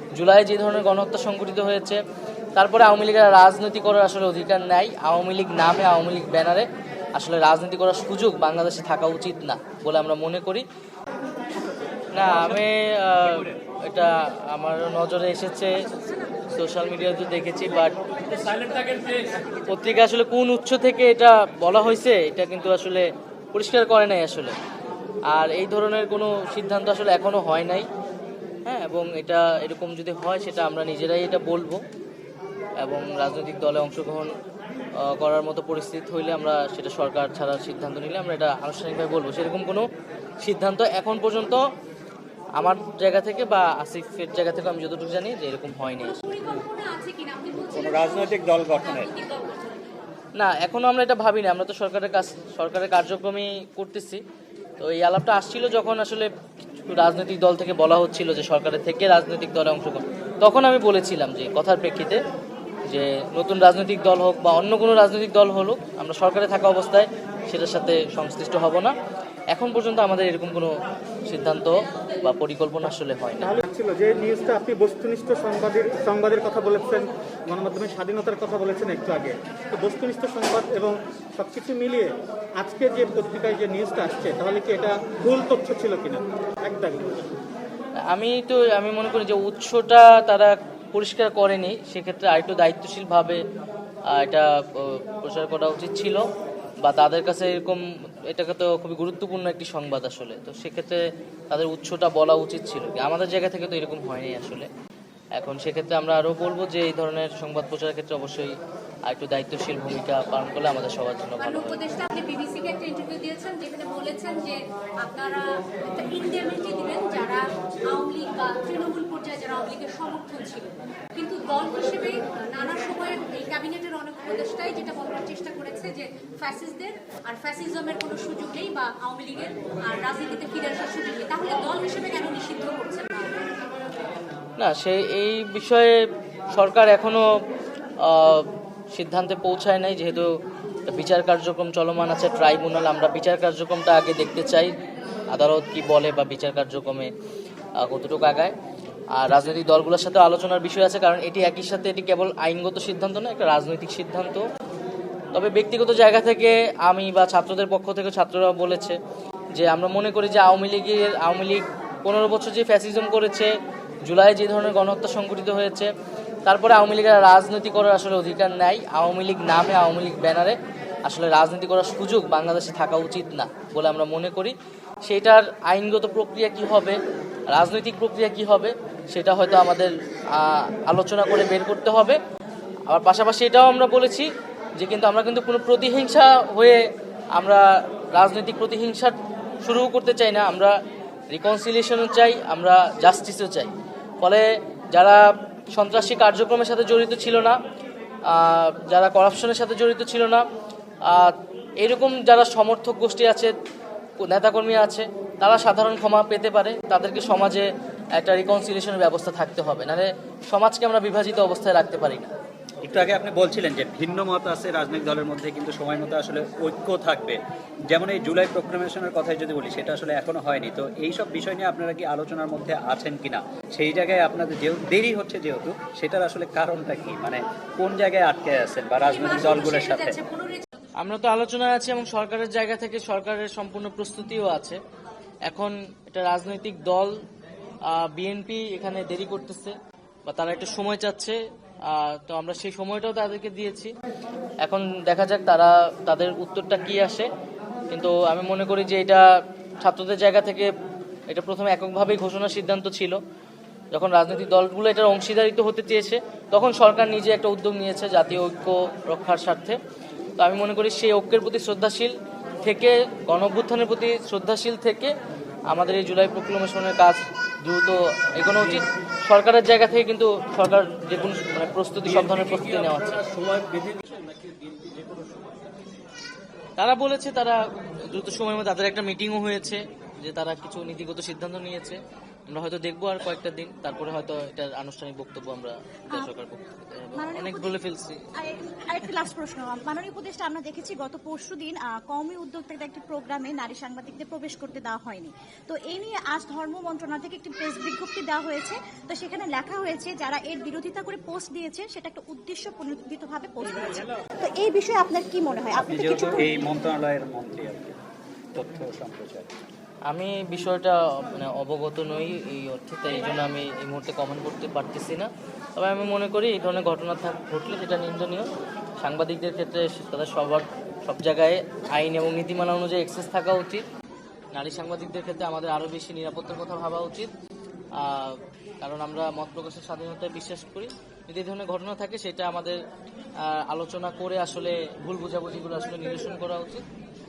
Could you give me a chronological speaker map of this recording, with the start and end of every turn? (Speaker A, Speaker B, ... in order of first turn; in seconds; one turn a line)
Speaker A: 0.1-2.0
Speaker A: 2.5-10.6
Speaker A: 12.1-15.8
Speaker A: 16.5-17.9
Speaker B: 18.3-19.4
Speaker A: 19.7-24.6
Speaker A: 25.3-27.9
Speaker A: 28.6-31.8
Speaker A: 32.8-34.3
Speaker A: 35.0-39.9
Speaker A: 40.4-41.6
Speaker A: 42.6-46.2
Speaker C: 46.0-49.8
Speaker D: 47.7-49.1
Speaker A: 50.4-54.2
Speaker A: 54.8-56.3
Speaker A: 56.9-62.2
Speaker A: 62.9-68.9
Speaker A: 69.5-70.7
Speaker A: 71.3-73.6
Speaker E: 73.4-87.3
Speaker A: 88.1-93.4
Speaker A: 94.1-96.3
Speaker A: 96.8-104.7
Speaker A: 105.4-111.8
Speaker C: 111.4-133.5
Speaker A: 134.6-137.4
Speaker A: 138.0-140.3
Speaker A: 140.9-144.7
Speaker A: 145.3-147.1
Speaker A: 147.8-148.6
Speaker A: 149.1-154.5
Speaker A: 155.3-159.0
Speaker A: 159.6-163.5
Speaker A: 164.0-165.9
Speaker A: 166.4-177.0
Speaker A: 177.5-182.2
Speaker A: 182.9-190.8
Speaker A: 191.3-197.6
Speaker A: 198.3-200.5
Speaker A: 201.1-203.6
Speaker A: 204.2-212.3
Speaker D: 212.8-230.2
Speaker C: 229.0-230.7
Speaker A: 231.0-234.8
Speaker A: 235.5-237.2
Speaker A: 237.8-239.8
Speaker A: 240.3-243.9
Speaker A: 244.6-247.3
Speaker A: 247.9-249.2
Speaker A: 249.8-250.7
Speaker A: 251.3-253.2
Speaker A: 253.9-259.8
Speaker A: 260.4-265.1
Speaker A: 265.7-273.2
Speaker D: 273.4-274.1
Speaker A: 276.8-288.3
Speaker B: 287.1-287.8
Speaker B: 288.4-306.6
Speaker D: 305.8-308.0
Speaker D: 308.6-309.5
Speaker A: 310.1-318.5
Speaker A: 319.0-323.8
Speaker A: 324.5-327.3
Speaker A: 327.9-332.8
Speaker A: 333.4-336.9